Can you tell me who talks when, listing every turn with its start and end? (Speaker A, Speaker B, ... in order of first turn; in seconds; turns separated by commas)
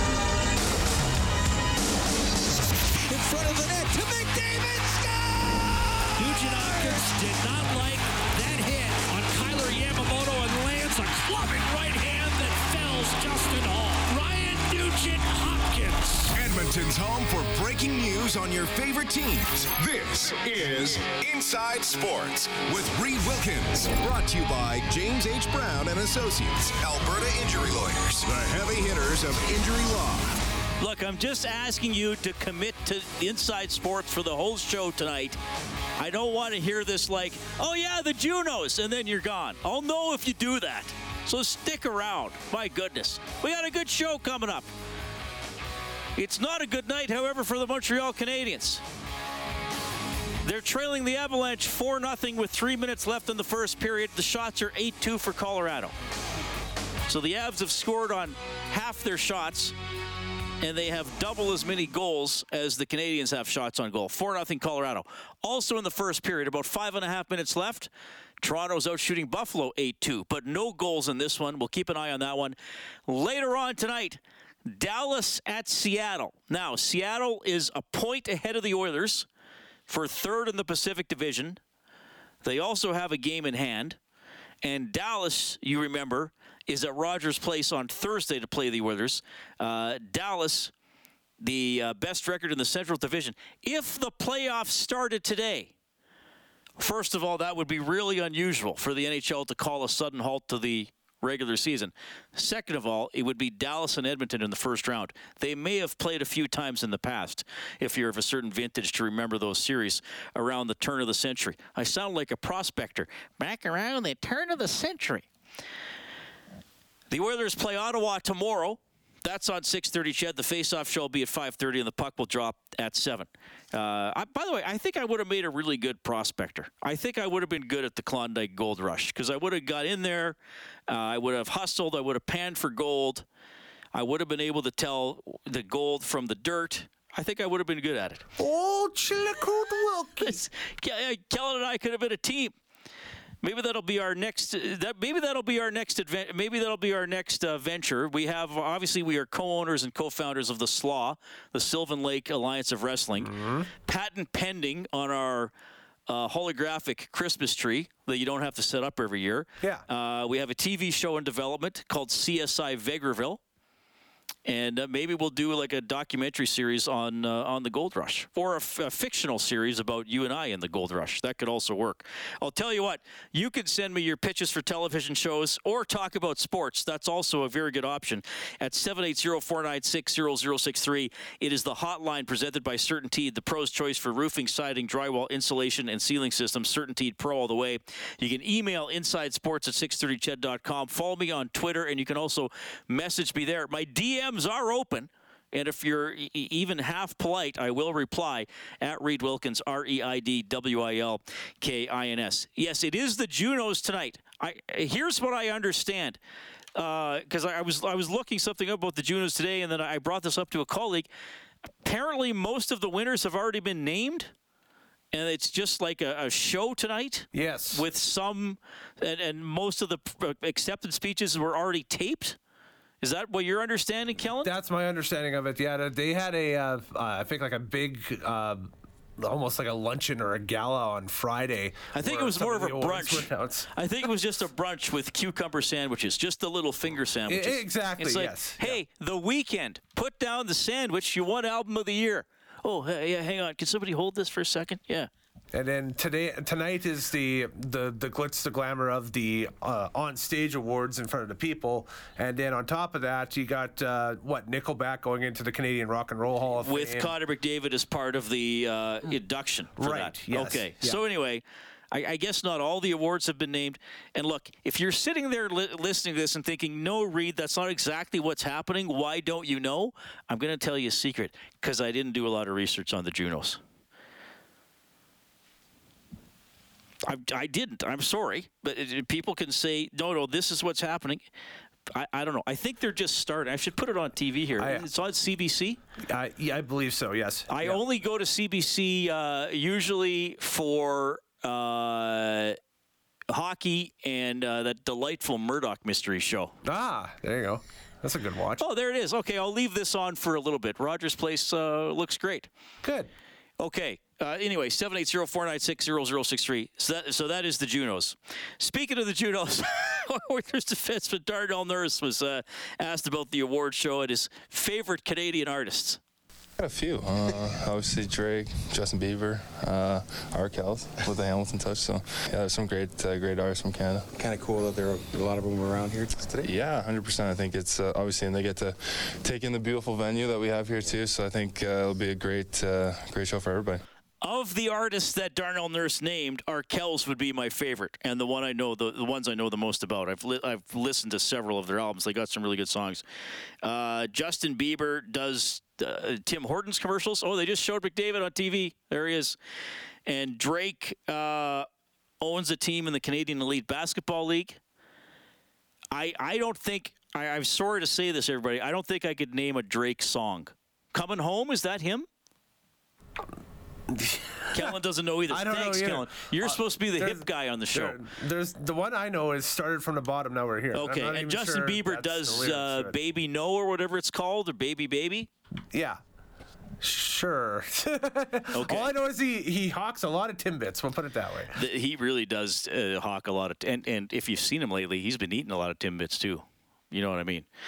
Speaker A: 3.1-3.9, Speaker A: 6.2-16.3, Speaker B: 16.3-30.4, Speaker A: 30.8-35.4, Speaker A: 36.0-44.7, Speaker A: 46.2-48.8, Speaker A: 50.4-55.9, Speaker A: 57.1-59.8, Speaker A: 60.6-67.9, Speaker A: 68.4-79.3, Speaker A: 79.9-81.6, Speaker A: 82.4-84.0, Speaker A: 84.6-90.7, Speaker A: 91.4-95.7, Speaker A: 96.8-115.3, Speaker A: 117.1-130.4, Speaker A: 130.9-133.3, Speaker A: 133.9-138.2, Speaker C: 138.4-140.3, Speaker A: 140.2-142.6, Speaker A: 143.4-153.3, Speaker C: 153.2-153.7, Speaker A: 153.8-155.5, Speaker A: 156.1-163.4, Speaker A: 164.4-206.2, Speaker A: 206.8-211.1, Speaker A: 211.8-214.3, Speaker A: 215.1-222.4, Speaker C: 217.3-217.8, Speaker A: 223.0-224.5, Speaker C: 224.4-233.7, Speaker A: 231.9-245.1, Speaker C: 237.3-238.8, Speaker C: 245.5-257.1, Speaker A: 256.6-273.6, Speaker C: 259.8-261.0, Speaker A: 277.1-281.2, Speaker A: 281.9-285.8, Speaker C: 284.6-284.9, Speaker C: 286.1-287.8, Speaker A: 287.5-292.6, Speaker A: 293.3-296.5, Speaker C: 296.6-298.6, Speaker A: 298.6-302.5, Speaker C: 302.8-303.1, Speaker A: 303.6-316.0, Speaker D: 316.6-324.1, Speaker E: 324.1-326.4, Speaker D: 326.4-333.8, Speaker A: 334.2-343.0, Speaker A: 343.6-349.4, Speaker A: 350.1-351.7, Speaker A: 352.2-354.6, Speaker A: 355.9-362.1, Speaker C: 363.9-364.7, Speaker A: 364.5-368.0, Speaker C: 365.3-373.0, Speaker A: 370.7-375.3, Speaker C: 375.7-376.0, Speaker C: 376.8-381.5, Speaker A: 378.5-378.9, Speaker A: 381.5-387.5